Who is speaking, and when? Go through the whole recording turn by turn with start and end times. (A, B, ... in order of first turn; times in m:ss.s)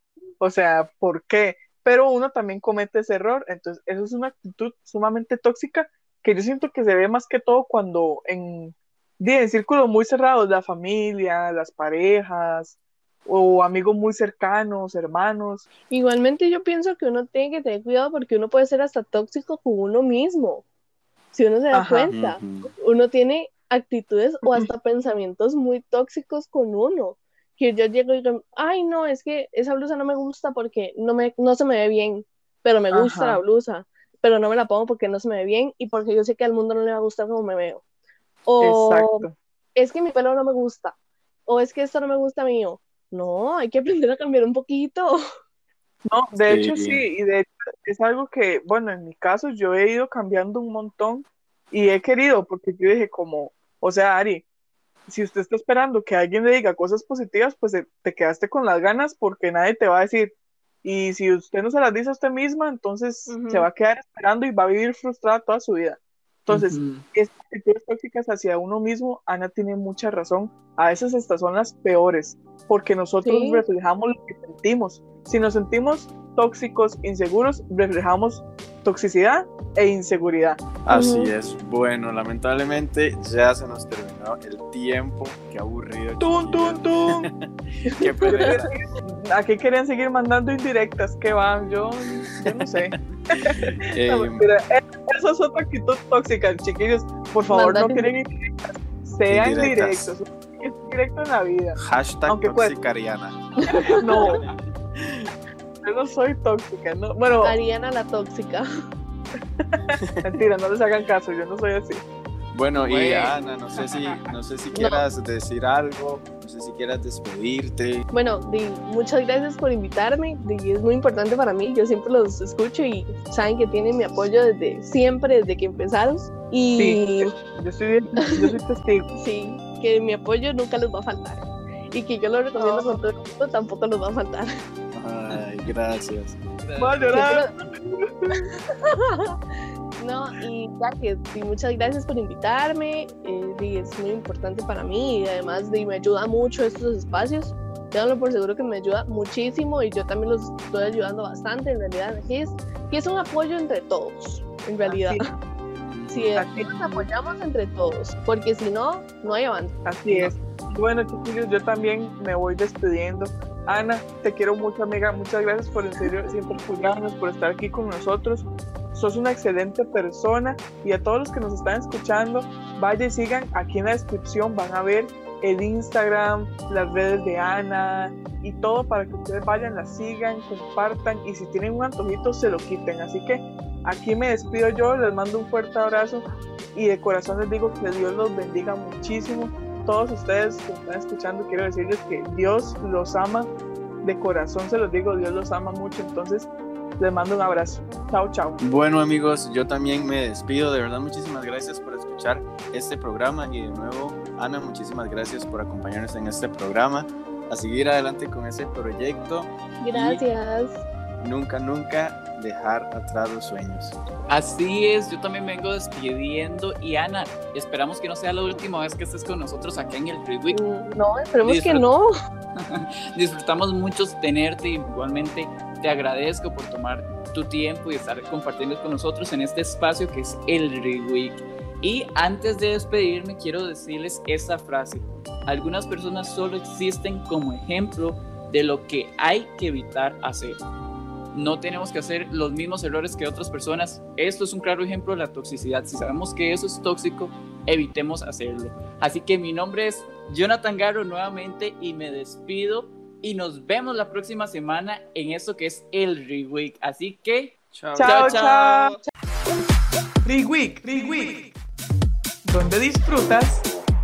0:00.4-0:15.6 A
0:15.9-0:20.6 B
0:21.3-0:37.8 B
0:21.7-0:22.1 A
0:22.1-0:22.7 C
0:32.9-0:33.4 A
0:38.4-0:40.9 B
0:38.6-0:39.3 A
0:41.5-0:45.2 B
0:46.0-0:54.4 A
0:46.4-0:47.0 C
0:55.1-1:00.3 A
1:00.8-1:20.6 A
1:03.3-1:03.7 B
1:06.5-1:07.0 D
1:13.2-1:13.6 B
1:20.8-1:28.7 C
1:20.9-1:21.3 B
1:26.2-1:27.3 A
1:28.0-1:28.6 B
1:28.2-1:42.7 A
1:33.4-1:34.4 C
1:37.5-1:38.1 B
1:39.3-1:40.1 C
1:41.8-1:43.4 C
1:43.6-1:44.3 B
1:43.6-1:44.4 A
1:45.0-1:45.3 C
1:45.8-1:47.6 A
1:47.4-1:48.7 B
1:49.6-1:52.0 A
1:52.5-1:58.0 C
1:52.7-1:53.4 D
1:54.7-1:55.0 B
1:58.1-2:07.3 B
2:06.8-2:09.1 A
2:09.1-2:14.5 B
2:12.6-2:13.1 A
2:14.9-2:16.4 C
2:16.6-2:17.0 D
2:16.8-2:18.5 A
2:17.1-2:17.5 B
2:18.5-2:19.4 B
2:20.0-2:35.2 B
2:34.8-2:35.2 A
2:35.9-2:36.4 C
2:36.1-2:40.3 B
2:36.4-2:37.1 A
2:39.8-3:13.5 A
3:14.0-3:18.6 A
3:18.6-3:30.2 C
3:29.8-3:30.8 B
3:31.2-3:34.0 C
3:34.3-3:40.6 D
3:40.5-3:42.1 B
3:41.4-3:41.8 D
3:42.6-4:00.6 D
4:01.3-4:18.9 D
4:17.7-4:18.8 C
4:18.0-4:19.0 A
4:20.2-4:21.5 A
4:22.4-4:23.6 A